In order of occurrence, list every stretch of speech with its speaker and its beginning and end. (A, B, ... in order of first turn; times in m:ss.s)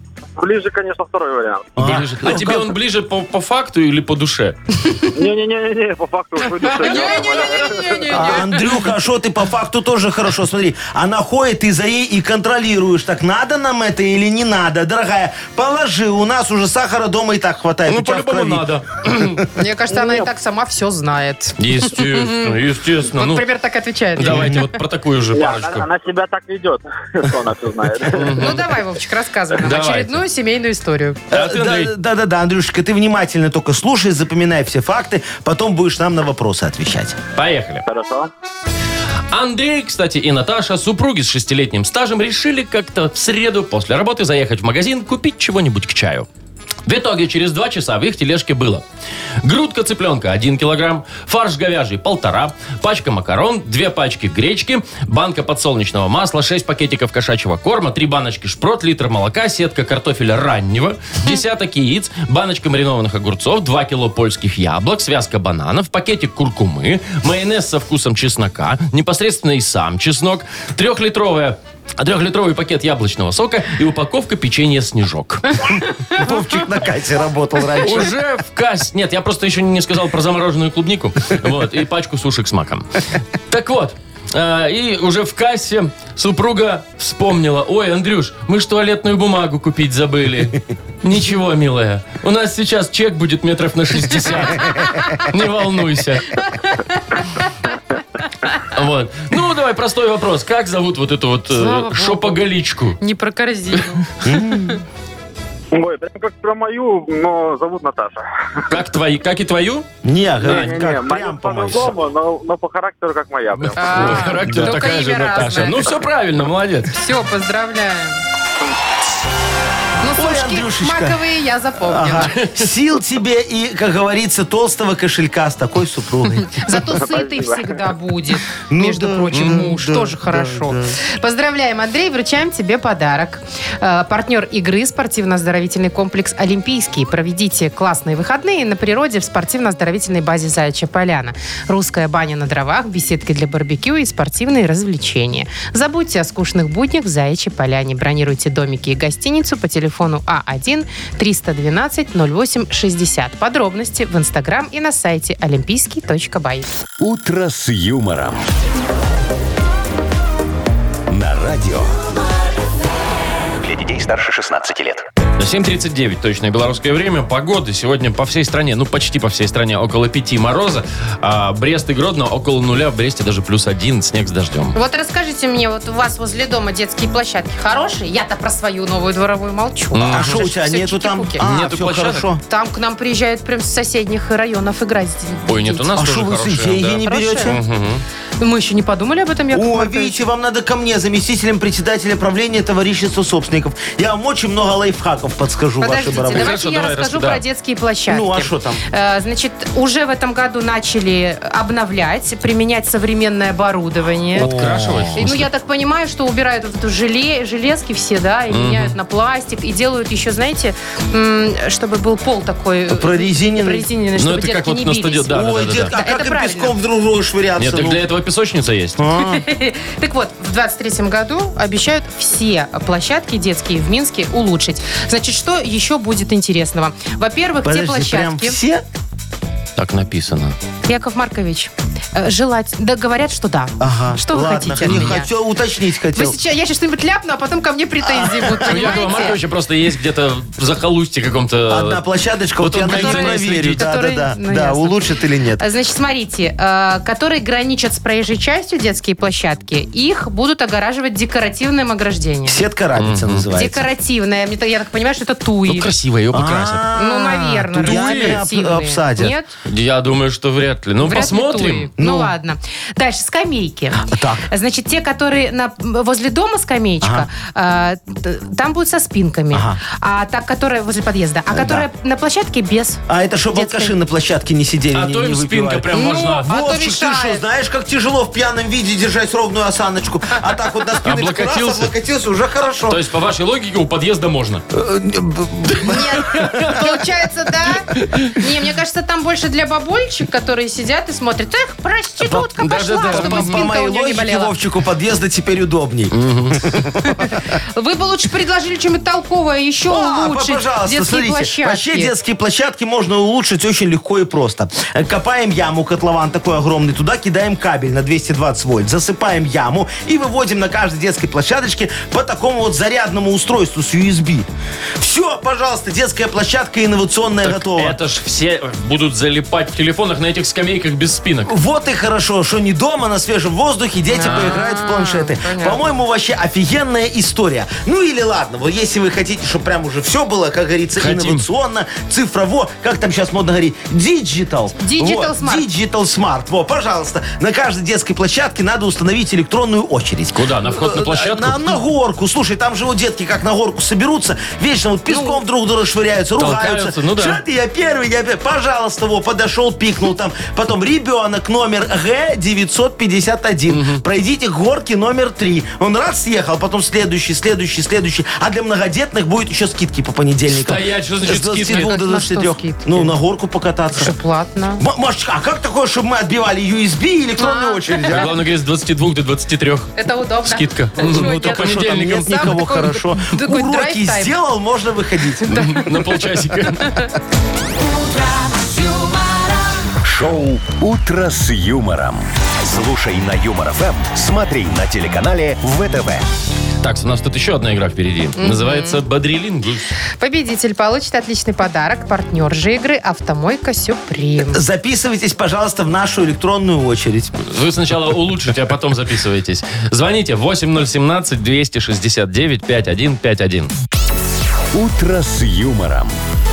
0:00.4-0:01.7 A
0:01.8-0:02.7 B
0:01.8-0:04.6 C
0:05.1-0:07.9 A
0:06.6-0:08.7 D
0:06.9-0:07.6 C
0:08.1-0:19.1 B
0:17.9-0:19.4 C
0:19.5-0:22.5 D
0:21.6-0:23.5 C
0:23.1-0:24.8 D
0:24.2-0:25.8 C
0:24.3-0:24.6 B
0:25.3-0:28.5 A
0:28.1-0:28.6 C
0:28.4-0:31.2 D
0:29.6-0:30.2 C
0:31.3-0:37.2 B
0:31.3-0:31.9 C
0:37.4-0:37.8 C
0:37.8-0:38.3 A
0:39.3-0:46.3 C
0:46.8-0:48.8 C
0:49.4-1:15.6 C
1:16.2-1:18.1 B
1:17.8-1:36.4 C
1:34.7-1:35.2 D
1:36.5-1:36.9 D
1:38.6-1:43.0 C
1:41.5-1:42.4 D
1:43.0-1:44.1 D
1:44.2-1:44.8 B
1:45.7-1:48.2 A
1:48.7-1:49.9 C
1:50.0-1:51.9 B
1:50.4-1:50.8 C
1:50.4-1:54.2 A
1:53.6-1:56.9 C
1:53.7-1:55.8 D
1:54.5-1:54.8 B
1:56.9-1:58.2 D
2:00.0-2:02.3 D
2:00.2-2:01.2 B
2:01.8-2:06.8 B
2:06.4-2:36.7 D
2:07.0-2:07.7 A
2:08.7-2:11.0 B
2:09.3-2:09.6 C
2:37.0-2:38.4 E
2:41.1-2:42.0 E
2:43.6-2:45.0 E
2:45.4-2:54.7 C
2:54.7-3:01.4 D
2:59.9-3:00.4 C
3:00.1-3:02.4 B
3:01.4-3:02.3 C
3:02.5-3:05.9 D
3:05.5-3:08.0 C
3:06.0-3:07.6 B
3:07.0-3:07.6 D
3:08.4-3:10.2 D
3:09.5-3:16.6 B
3:15.8-3:24.5 D
3:16.3-3:17.4 C
3:18.1-3:18.8 B
3:24.3-3:25.2 B
3:24.3-3:25.5 C
3:25.2-3:35.4 D
3:28.5-3:29.0 C
3:32.9-3:33.8 B
3:34.2-3:35.9 C
3:35.3-3:38.0 B
3:35.9-3:36.7 D
3:37.6-3:39.0 C
3:39.0-3:39.4 B
3:39.2-3:48.6 D
3:47.6-3:48.8 B
3:49.8-3:50.5 C
3:50.9-3:55.3 D
3:53.8-3:56.4 B
3:54.8-3:55.1 C
3:56.1-3:59.4 D
3:58.0-3:59.3 B
3:58.6-4:02.0 C
4:01.7-4:05.6 B
4:02.6-4:03.8 C
4:02.8-4:05.0 D
4:05.6-4:12.6 D
4:12.4-4:13.8 B
4:13.0-4:13.4 C
4:13.5-4:15.9 D
4:15.6-4:16.8 C
4:16.3-4:19.3 B
4:16.9-4:19.5 D
4:17.8-4:18.4 C
4:19.6-4:21.9 C
4:21.0-4:33.0 D
4:22.0-4:22.3 B
4:24.1-4:24.5 B
4:27.0-4:27.3 B
4:29.5-4:29.8 B
4:31.5-4:31.8 B
4:33.1-4:43.0 B
4:33.5-4:33.9 D
4:34.9-4:36.5 C
4:35.9-4:37.4 D
4:41.0-4:41.9 C
4:42.9-4:44.6 C
4:44.7-4:46.8 B
4:45.8-4:54.5 D
4:46.3-4:46.8 C
4:47.9-4:48.3 C
4:52.2-4:57.4 B
4:52.6-4:53.6 C
4:56.1-4:56.6 C
4:57.0-5:02.1 D
4:59.9-5:14.5 B
5:15.0-5:18.0 B
5:17.4-5:21.5 C
5:21.4-6:04.1 B
5:24.1-5:25.8 D
5:24.2-5:24.6 C
5:31.0-5:31.4 C
5:34.8-5:35.6 D
5:40.3-5:41.8 C
5:45.1-5:45.4 D
5:46.4-5:47.4 C
5:53.7-5:54.0 C
6:00.5-6:01.9 C
6:01.7-6:03.1 D
6:04.0-6:04.8 D
6:04.8-6:08.3 B
6:07.4-6:08.2 D
6:08.0-6:12.6 C
6:10.0-6:14.3 D
6:11.0-6:15.6 B
6:15.4-6:16.1 D
6:15.5-6:17.0 C
6:16.8-6:17.1 D
6:17.9-6:19.5 A
6:20.0-6:26.2 E
6:26.8-6:29.9 C
6:28.4-6:29.0 D
6:30.2-6:34.6 D
6:34.5-6:37.4 B
6:37.4-6:43.7 C
6:44.7-6:46.1 E